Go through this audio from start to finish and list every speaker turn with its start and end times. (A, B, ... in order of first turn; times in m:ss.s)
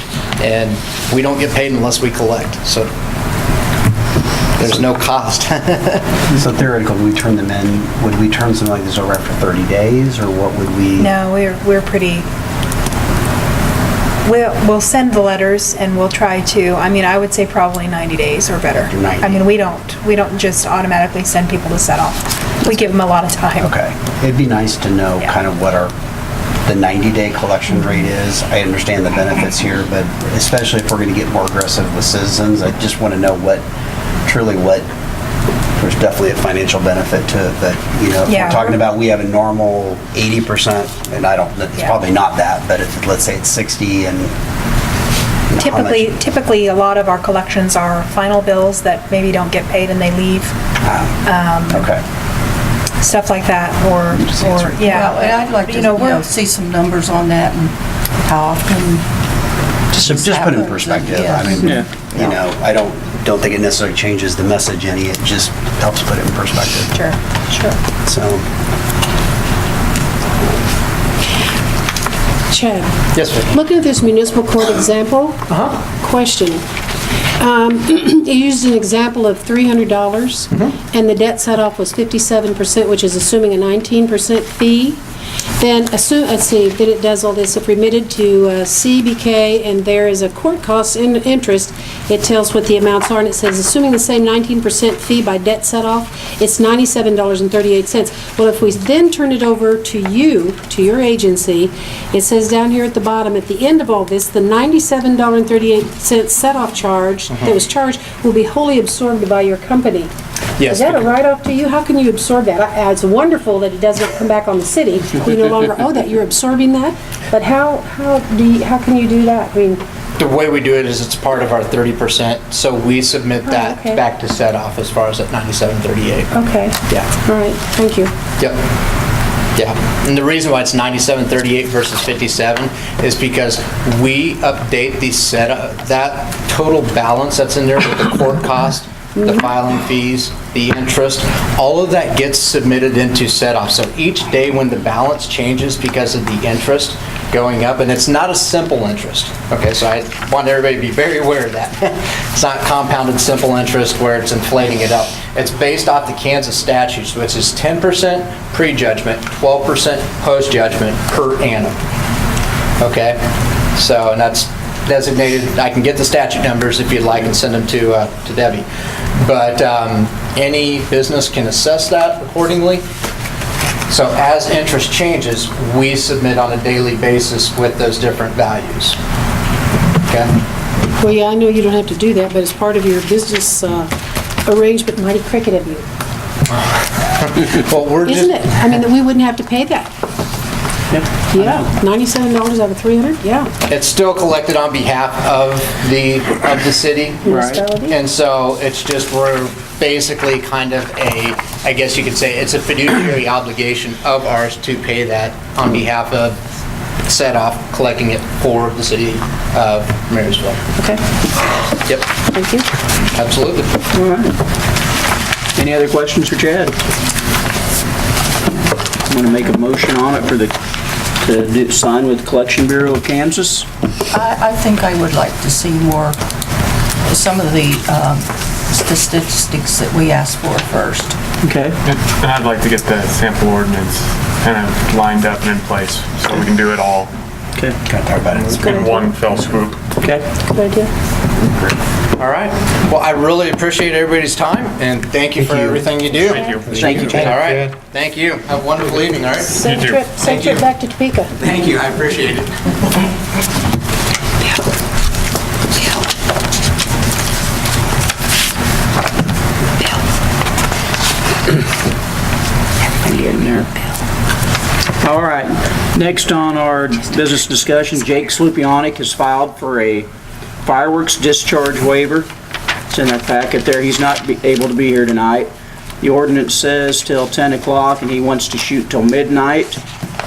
0:00.4-0:02.9 A
0:04.6-0:06.1 A
0:06.3-0:11.1 B
0:11.0-0:12.2 C
0:14.2-0:23.7 C
0:18.9-0:19.5 B
0:23.6-0:25.9 B
0:26.6-0:33.6 B
0:34.2-0:34.8 B
0:35.8-0:44.3 B
0:38.2-0:38.7 C
0:45.5-0:46.1 B
0:45.6-0:50.5 C
0:50.8-0:52.0 B
0:51.2-0:51.8 C
0:53.0-0:56.2 C
0:54.1-0:55.2 B
0:54.9-0:57.7 D
0:58.2-0:59.0 D
0:59.9-1:02.0 D
0:59.9-1:07.0 B
1:01.6-1:01.9 E
1:06.9-1:07.8 C
1:08.0-1:08.4 B
1:12.5-1:16.6 F
1:13.1-1:13.6 A
1:15.5-1:15.8 A
1:17.4-1:25.0 F
1:25.6-1:50.1 F
1:47.3-1:47.6 A
1:50.6-1:51.1 A
1:50.6-1:59.8 F
2:00.2-2:07.1 A
2:03.4-2:04.0 F
2:06.3-2:08.1 F
2:09.6-2:41.8 A
2:42.8-2:48.6 A
2:49.2-2:52.8 A
2:53.9-2:59.0 A
3:01.0-3:03.9 F
3:04.4-3:05.8 F
3:06.5-3:08.8 A
3:08.0-3:09.9 F
3:10.9-3:11.6 E
3:11.3-3:13.5 F
3:13.6-3:26.4 A
3:17.2-3:18.0 F
3:17.3-3:17.6 E
3:27.0-3:30.6 A
3:32.3-3:32.7 F
3:33.1-3:33.8 A
3:33.9-3:34.3 D
3:35.6-3:36.7 E
3:39.1-3:40.5 E
3:41.2-3:43.6 E
3:44.1-3:46.2 D
3:47.0-3:51.2 D
3:51.4-3:51.7 E
3:51.8-3:57.1 G
3:57.8-3:58.9 B
3:58.3-3:59.9 G
4:00.0-4:00.3 E
4:00.4-4:00.9 F
4:02.2-4:10.6 A
4:06.1-4:06.9 G
4:06.7-4:07.2 D
4:06.7-4:07.4 E
4:09.4-4:11.3 F
4:09.6-4:10.1 G
4:11.4-4:12.9 A
4:23.0-4:23.7 E
4:25.0-4:30.1 E
4:30.6-4:32.3 E
4:32.9-4:39.8 E